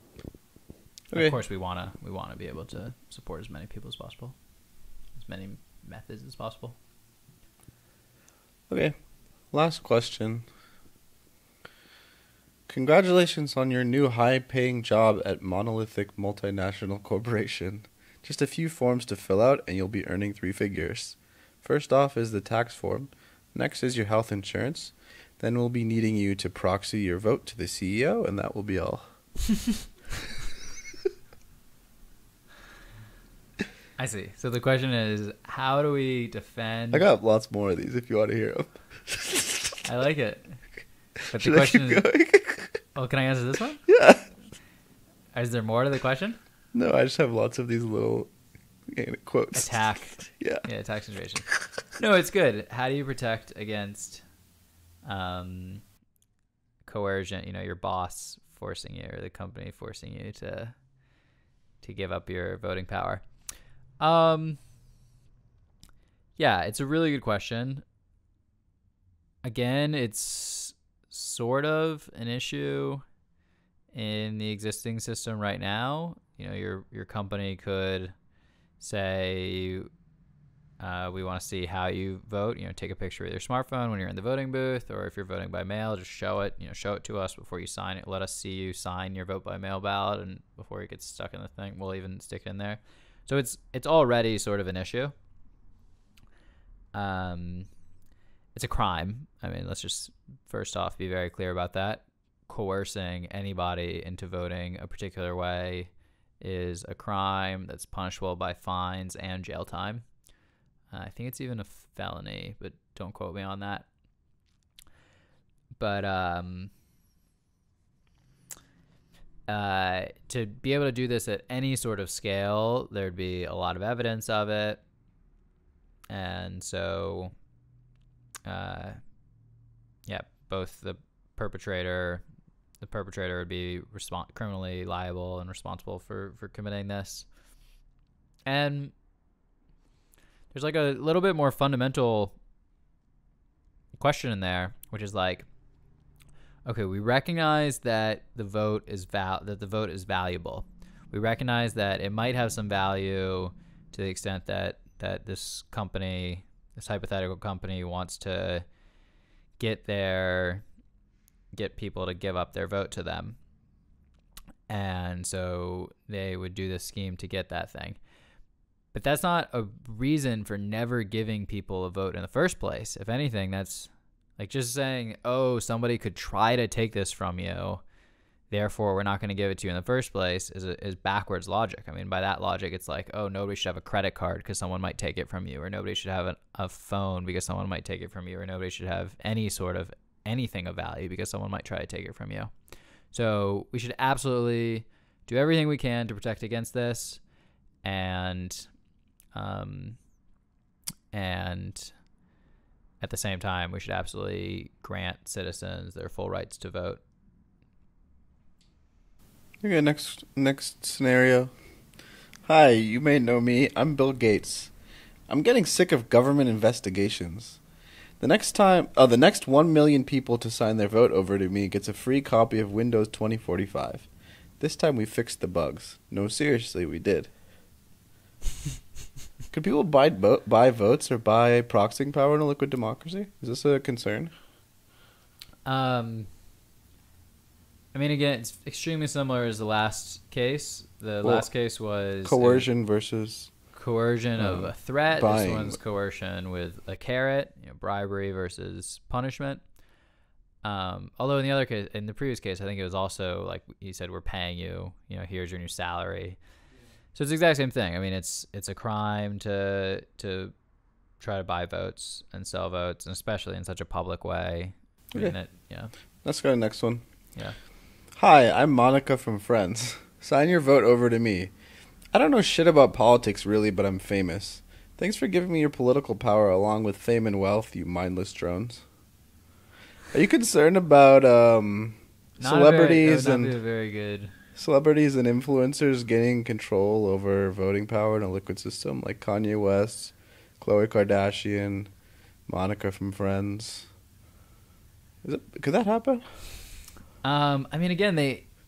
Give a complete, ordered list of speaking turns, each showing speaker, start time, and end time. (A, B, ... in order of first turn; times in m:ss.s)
0:01.1-0:01.4 A
0:01.1-0:04.4 B
0:05.2-0:06.8 B
0:08.7-0:09.0 A
0:09.5-0:10.4 A
0:12.7-0:29.1 A
0:34.0-0:37.0 B
0:36.9-0:39.8 A
0:39.8-0:40.6 B
0:41.3-0:42.8 A
0:41.3-0:42.1 B
0:43.0-0:43.8 B
0:43.9-0:44.3 A
0:45.3-0:46.4 B
0:46.7-0:48.3 A
0:48.9-0:50.6 A
0:49.5-0:54.2 B
0:55.0-0:55.8 B
0:56.8-1:00.8 B
1:01.8-1:03.2 B
1:04.0-1:04.6 B
1:06.4-1:07.8 B
1:09.4-1:13.0 B
1:13.9-1:18.1 B
1:18.8-1:19.9 B
1:20.8-1:35.1 B
1:36.9-1:37.7 B
1:38.6-1:50.0 B
1:50.9-1:53.9 B
1:55.8-1:56.7 B
1:59.5-2:04.8 B
2:06.1-2:07.3 B
2:08.5-2:09.0 B
2:10.1-2:12.2 B
2:12.8-2:17.3 B
2:18.5-2:18.9 B
2:20.5-2:22.4 B
2:24.0-2:25.5 B
2:26.7-2:38.6 B
2:39.6-2:40.6 B
2:41.5-2:43.4 B
2:44.7-2:48.0 B
2:48.9-2:57.8 B
2:58.5-3:12.5 B
3:13.1-3:17.2 B
3:17.8-3:18.7 B
3:19.3-3:20.0 B
3:21.1-3:21.9 B
3:23.0-3:27.0 B
3:29.6-3:31.5 A
3:32.4-3:34.7 A
3:35.3-3:37.6 A
3:38.2-3:44.1 A
3:44.6-3:47.3 A
3:49.5-3:54.3 A
3:55.6-3:56.3 B
3:57.9-4:02.7 B
4:01.2-4:01.5 A
4:02.2-4:03.5 A
4:03.7-4:09.6 B
4:04.4-4:05.8 A
4:10.6-4:16.4 B
4:17.2-4:20.5 B
4:21.2-4:25.9 B
4:26.2-4:27.0 A
4:28.2-4:31.5 A
4:32.1-4:38.8 A
4:40.1-4:43.6 A
4:42.4-4:44.3 B
4:44.6-4:51.9 A
4:52.5-4:53.9 A
4:55.2-4:56.5 A
4:57.2-4:58.5 B